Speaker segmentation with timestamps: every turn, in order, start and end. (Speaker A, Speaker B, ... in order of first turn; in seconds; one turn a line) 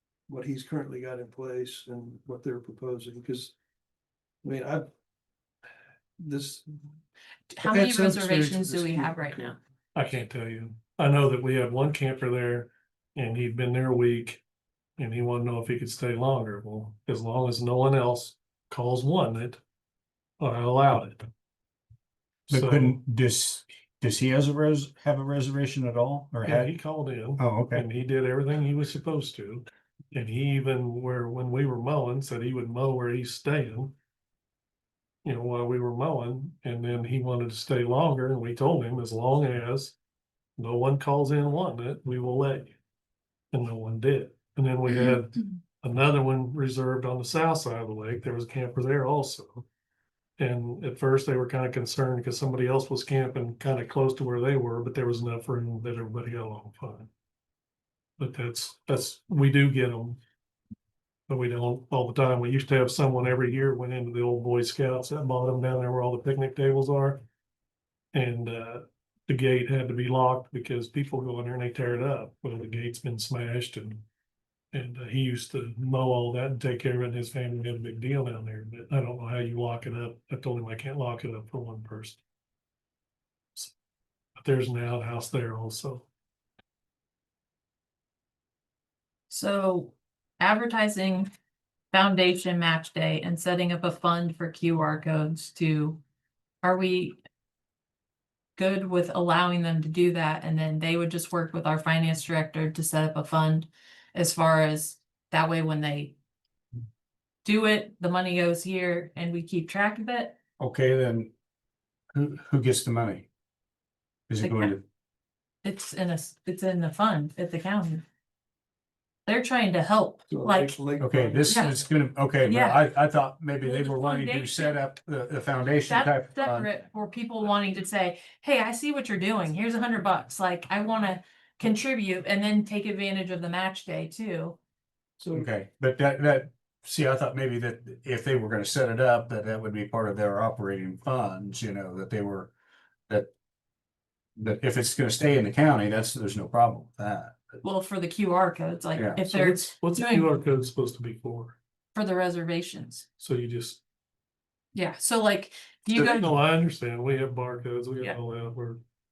Speaker A: 0.3-3.5
Speaker A: 4.4-4.9
Speaker A: 6.2-6.8
Speaker B: 7.5-9.6
Speaker A: 7.6-9.6
Speaker C: 9.9-14.4
Speaker C: 15.0-19.6
Speaker C: 20.4-21.3
Speaker C: 22.5-23.0
Speaker D: 22.5-26.7
Speaker C: 26.4-34.0
Speaker D: 27.4-27.9
Speaker C: 35.2-40.0
Speaker C: 40.6-42.8
Speaker C: 43.5-49.7
Speaker C: 50.4-57.1
Speaker C: 58.2-60.2
Speaker C: 61.3-67.2
Speaker C: 68.1-74.0
Speaker C: 74.7-82.2
Speaker C: 84.4-86.1
Speaker B: 89.3-91.3
Speaker B: 91.9-96.0
Speaker B: 96.6-97.2
Speaker B: 98.6-106.1
Speaker B: 107.4-110.4
Speaker D: 110.6-111.3
Speaker D: 112.1-113.3
Speaker D: 114.3-114.8
Speaker B: 114.4-114.8
Speaker B: 115.6-118.0
Speaker B: 119.3-120.9
Speaker A: 120.3-121.7
Speaker D: 121.0-126.7
Speaker B: 121.5-121.8
Speaker B: 122.4-122.9
Speaker B: 123.6-124.8
Speaker B: 125.9-134.6
Speaker A: 135.2-135.5
Speaker D: 135.3-142.5
Speaker D: 144.4-147.4
Speaker B: 147.6-150.3
Speaker D: 148.9-149.2
Speaker C: 149.2-151.6
Speaker B: 151.9-153.1
Speaker C: 153.2-153.8
Speaker B: 154.7-156.3
Speaker C: 155.9-158.8